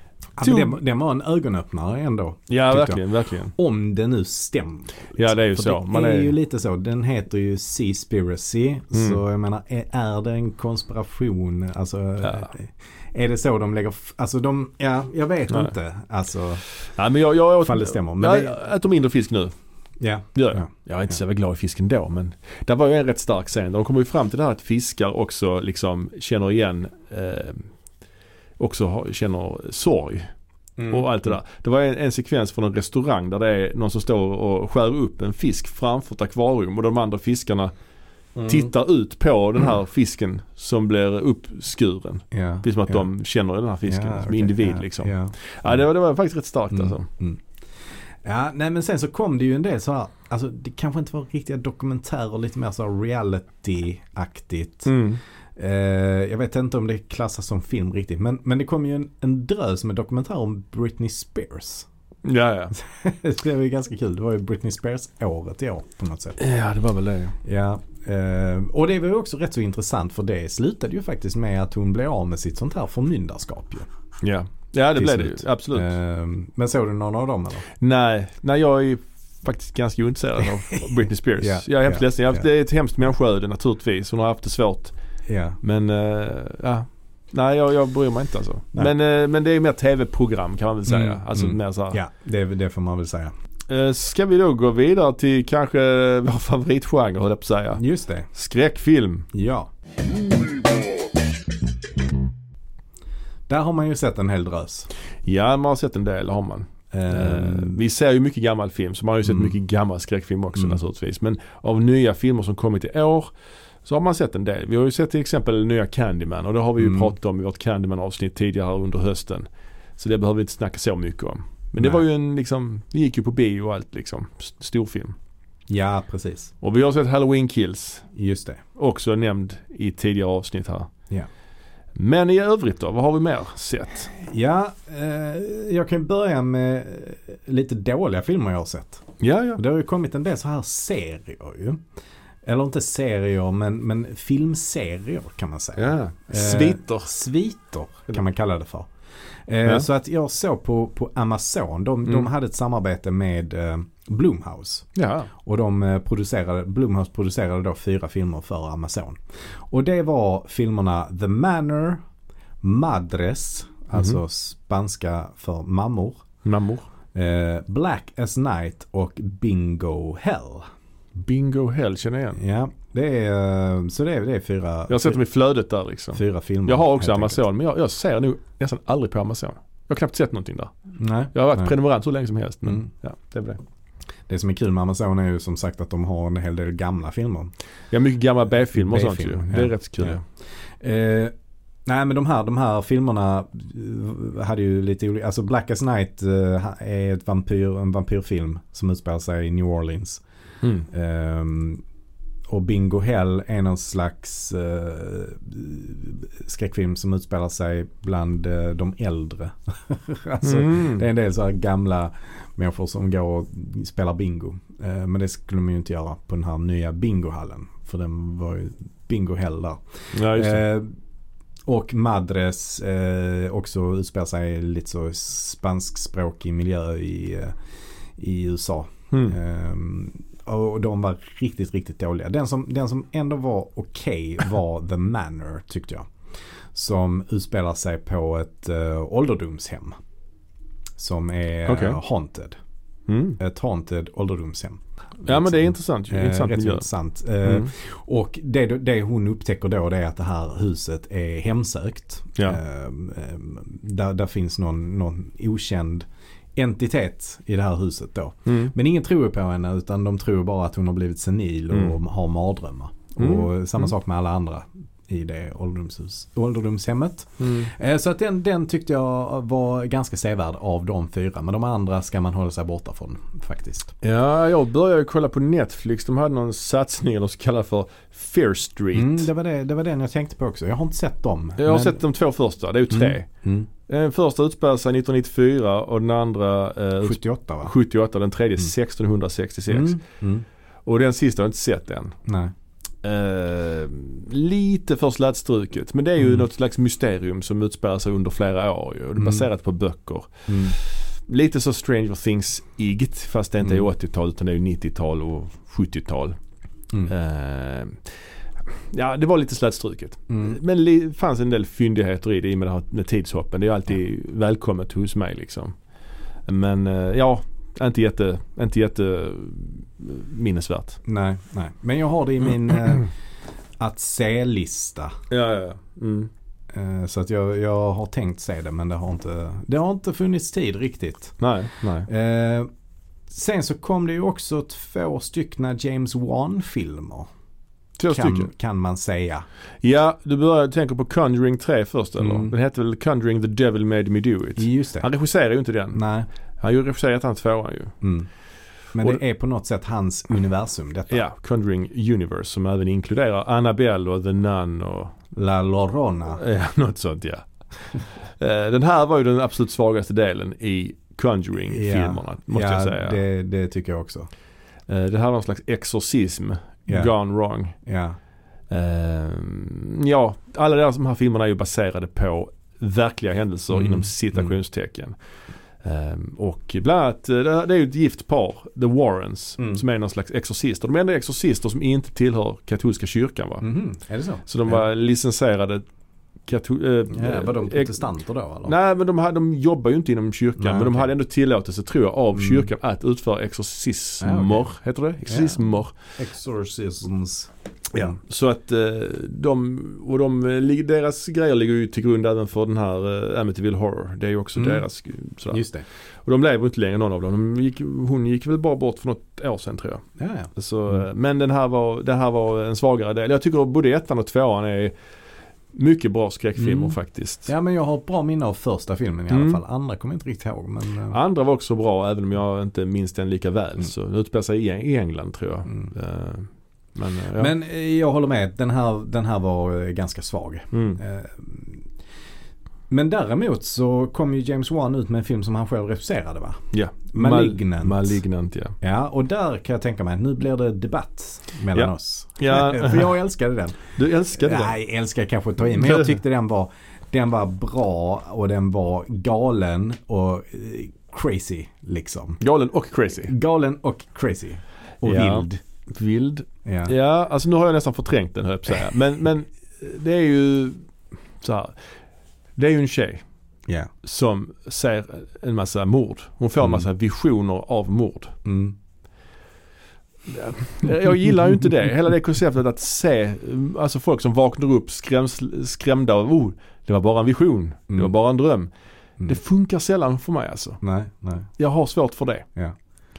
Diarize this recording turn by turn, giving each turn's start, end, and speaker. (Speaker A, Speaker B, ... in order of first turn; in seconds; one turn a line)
Speaker A: 0.4-16.6
Speaker B: 0.4-0.8
Speaker B: 2.5-3.5
Speaker B: 5.2-6.3
Speaker B: 8.9-9.2
Speaker B: 16.7-19.5
Speaker A: 17.6-18.6
Speaker A: 20.0-20.7
Speaker B: 20.4-27.7
Speaker B: 28.6-30.3
Speaker A: 30.8-31.4
Speaker B: 30.9-37.7
Speaker A: 38.4-38.7
Speaker B: 38.5-47.1
Speaker A: 42.3-43.1
Speaker A: 43.9-45.8
Speaker A: 46.7-47.4
Speaker A: 48.2-54.9
Speaker B: 54.9-55.2
Speaker A: 55.6-61.9
Speaker B: 62.2-62.8
Speaker A: 62.7-66.4
Speaker B: 66.4-67.3
Speaker A: 67.4-73.9
Speaker B: 74.2-75.9
Speaker A: 75.0-77.7
Speaker B: 77.8-84.9
Speaker A: 81.4-82.5
Speaker A: 85.3-85.6
Speaker B: 85.6-92.0
Speaker A: 90.9-93.3
Speaker B: 93.7-99.3
Speaker A: 97.8-98.3
Speaker A: 99.3-99.7
Speaker A: 103.5-104.9
Speaker B: 105.2-113.3
Speaker A: 106.9-107.8
Speaker A: 109.3-109.5
Speaker B: 113.8-119.5
Speaker A: 116.8-117.1
Speaker B: 120.0-125.2
Speaker A: 125.7-126.5
Speaker B: 126.6-128.1
Speaker A: 128.1-128.6
Speaker B: 128.8-130.9
Speaker B: 131.9-134.1
Speaker A: 134.1-139.1
Speaker B: 139.2-139.6
Speaker A: 139.6-141.8
Speaker A: 142.4-148.9
Speaker B: 145.8-147.1
Speaker A: 149.5-162.0
Speaker B: 155.0-155.3
Speaker A: 162.6-166.2
Speaker B: 166.4-166.9
Speaker A: 167.1-170.7
Speaker B: 171.2-172.4
Speaker A: 172.4-175.2
Speaker B: 174.9-180.7
Speaker A: 176.2-177.4
Speaker A: 181.0-181.7
Speaker B: 181.3-183.6
Speaker A: 184.3-187.5
Speaker B: 187.9-190.2
Speaker A: 188.8-190.2
Speaker A: 190.8-191.3
Speaker A: 191.9-200.2
Speaker B: 200.6-200.9
Speaker A: 200.9-201.8
Speaker A: 202.5-220.9
Speaker B: 210.4-211.0
Speaker B: 220.1-220.6
Speaker A: 221.7-227.6
Speaker A: 228.2-236.1
Speaker A: 236.7-240.0
Speaker A: 241.0-242.6
Speaker B: 241.7-242.0
Speaker B: 243.1-243.4
Speaker A: 243.4-273.9
Speaker B: 245.2-246.9
Speaker B: 247.4-247.7
Speaker B: 258.5-258.7
Speaker B: 263.2-263.5
Speaker B: 267.4-267.7
Speaker B: 274.0-279.3
Speaker A: 278.9-282.0
Speaker B: 281.6-283.3
Speaker A: 282.9-283.7
Speaker B: 283.9-290.0
Speaker A: 287.0-287.7
Speaker A: 289.7-290.4
Speaker B: 290.9-292.2
Speaker A: 292.3-292.5
Speaker B: 293.0-306.4
Speaker A: 296.2-296.4
Speaker A: 299.2-299.5
Speaker A: 300.5-300.8
Speaker B: 307.0-308.1
Speaker B: 308.7-315.8
Speaker A: 310.3-310.6
Speaker B: 316.5-321.0
Speaker A: 321.1-323.1
Speaker A: 323.8-325.2
Speaker B: 325.3-326.3
Speaker A: 326.7-331.4
Speaker B: 331.4-332.1
Speaker A: 332.1-332.7
Speaker A: 333.3-337.3
Speaker B: 338.0-338.5
Speaker A: 338.1-339.5
Speaker B: 339.8-346.0
Speaker A: 342.2-342.5
Speaker A: 344.6-345.1
Speaker A: 345.9-346.3
Speaker B: 346.6-348.0
Speaker A: 348.0-348.3
Speaker A: 348.9-351.2
Speaker B: 351.1-355.2
Speaker A: 355.3-356.4
Speaker B: 356.3-363.2
Speaker A: 361.7-364.3
Speaker B: 364.9-367.8
Speaker A: 366.9-367.1
Speaker A: 367.8-368.2
Speaker B: 368.7-375.1
Speaker A: 373.7-374.5
Speaker B: 375.8-383.7
Speaker A: 379.6-379.8
Speaker A: 383.6-384.8
Speaker B: 384.5-385.9
Speaker B: 386.5-388.0
Speaker A: 387.1-388.8
Speaker B: 388.6-395.9
Speaker A: 390.6-391.1
Speaker A: 392.4-392.7
Speaker A: 394.2-394.7
Speaker A: 395.2-395.6
Speaker A: 396.2-398.1
Speaker B: 397.9-405.6
Speaker A: 404.6-404.9
Speaker A: 405.5-405.9
Speaker B: 406.2-414.9
Speaker A: 410.2-411.0
Speaker B: 415.7-417.5
Speaker A: 416.6-421.2
Speaker B: 419.3-419.6
Speaker B: 421.1-427.5
Speaker A: 427.4-431.9
Speaker B: 430.7-431.0
Speaker A: 432.9-438.2
Speaker B: 436.7-438.8
Speaker A: 438.8-443.8
Speaker B: 441.7-443.1
Speaker B: 444.0-444.8
Speaker A: 444.3-452.4
Speaker B: 445.8-446.1
Speaker B: 452.4-453.3
Speaker A: 453.2-455.6
Speaker B: 455.0-460.9
Speaker A: 456.6-456.9
Speaker B: 461.4-461.8
Speaker B: 462.6-463.2
Speaker B: 464.0-468.4
Speaker A: 468.4-468.8
Speaker B: 470.3-478.7
Speaker B: 479.3-480.8
Speaker A: 480.8-481.5
Speaker B: 481.6-482.5